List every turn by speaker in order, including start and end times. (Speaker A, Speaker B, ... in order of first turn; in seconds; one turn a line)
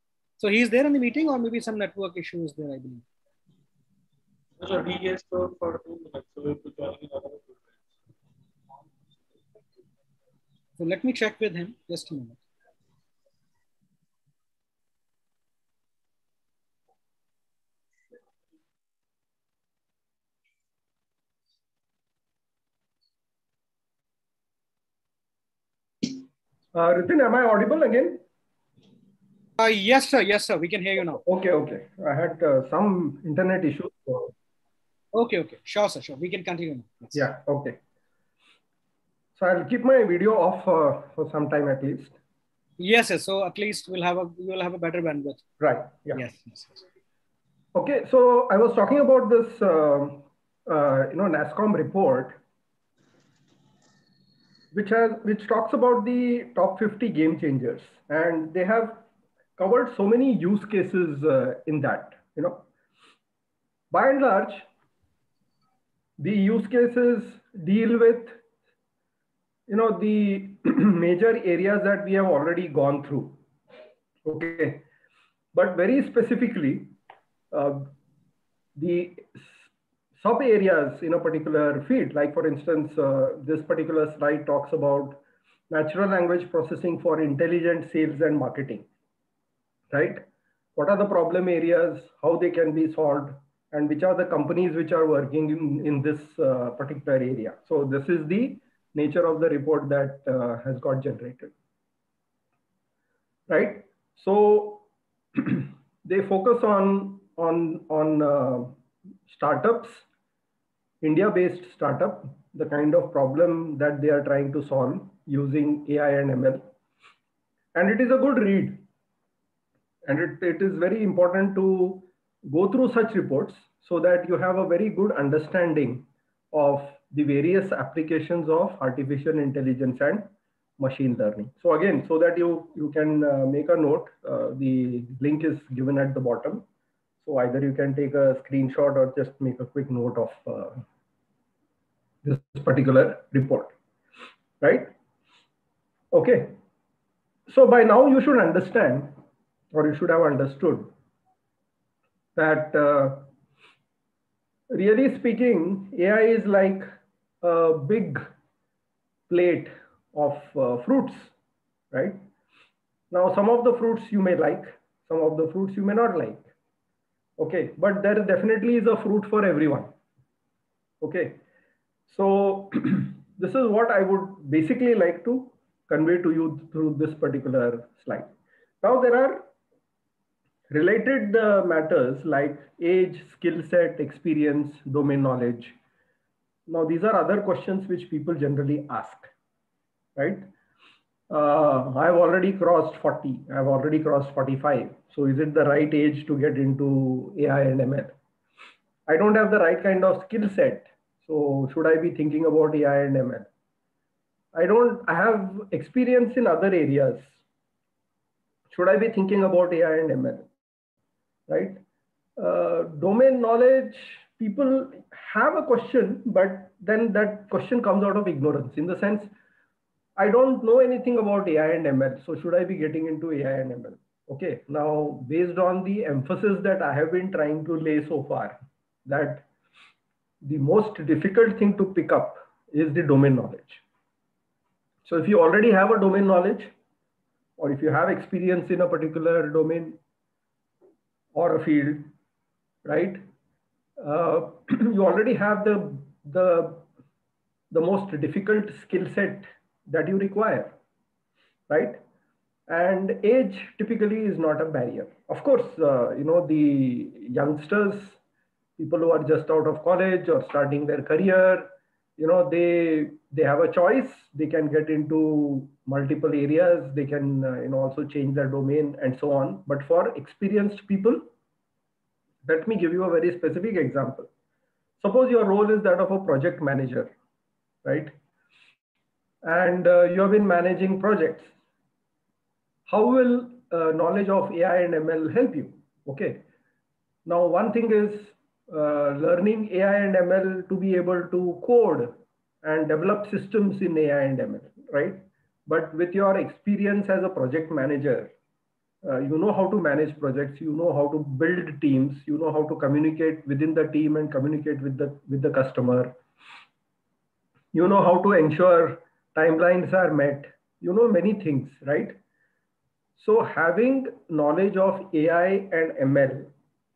Speaker A: 0.4-3.0
Speaker B: 4.6-7.8
Speaker A: 10.8-12.4
Speaker C: 26.7-28.2
Speaker A: 29.6-31.2
Speaker C: 31.2-34.3
Speaker A: 35.1-37.2
Speaker C: 37.1-37.8
Speaker C: 39.4-42.1
Speaker A: 42.8-45.4
Speaker C: 45.6-46.2
Speaker A: 46.1-46.8
Speaker C: 47.7-52.4
Speaker C: 54.7-59.0
Speaker C: 59.6-62.6
Speaker C: 63.9-64.7
Speaker C: 66.2-68.4
Speaker C: 69.7-73.4
Speaker C: 74.2-74.9
Speaker C: 75.5-77.0
Speaker C: 77.5-77.9
Speaker C: 78.8-79.6
Speaker C: 80.2-88.9
Speaker C: 89.9-90.2
Speaker C: 90.8-101.5
Speaker C: 103.5-108.8
Speaker C: 109.3-110.0
Speaker C: 111.0-116.7
Speaker C: 117.8-118.8
Speaker C: 120.0-136.7
Speaker C: 137.2-140.8
Speaker C: 142.2-143.7
Speaker C: 144.6-144.9
Speaker C: 146.1-146.6
Speaker C: 147.5-149.2
Speaker C: 149.7-150.9
Speaker C: 152.4-153.3
Speaker C: 154.7-156.9
Speaker C: 157.4-158.3
Speaker C: 159.3-161.3
Speaker C: 161.9-162.2
Speaker C: 163.1-166.5
Speaker C: 167.4-169.9
Speaker C: 171.0-171.4
Speaker C: 172.1-178.3
Speaker C: 178.8-179.5
Speaker C: 180.7-185.8
Speaker C: 186.7-189.3
Speaker C: 190.2-190.5
Speaker C: 191.3-198.1
Speaker C: 199.1-203.5
Speaker C: 204.5-207.3
Speaker C: 208.7-210.5
Speaker C: 211.5-211.8
Speaker C: 212.4-219.3
Speaker C: 220.2-229.5
Speaker C: 230.4-233.8
Speaker C: 235.1-236.7
Speaker C: 237.6-240.0
Speaker C: 241.3-242.1
Speaker C: 242.8-243.2
Speaker C: 244.0-246.8
Speaker C: 247.7-250.8
Speaker C: 251.7-252.0
Speaker C: 252.7-258.2
Speaker C: 258.8-271.2
Speaker C: 272.4-274.3
Speaker C: 275.0-277.1
Speaker C: 277.8-278.1
Speaker C: 279.4-281.5
Speaker C: 282.9-286.4
Speaker C: 287.3-298.3
Speaker C: 299.0-306.2
Speaker C: 307.7-312.2
Speaker C: 313.2-316.5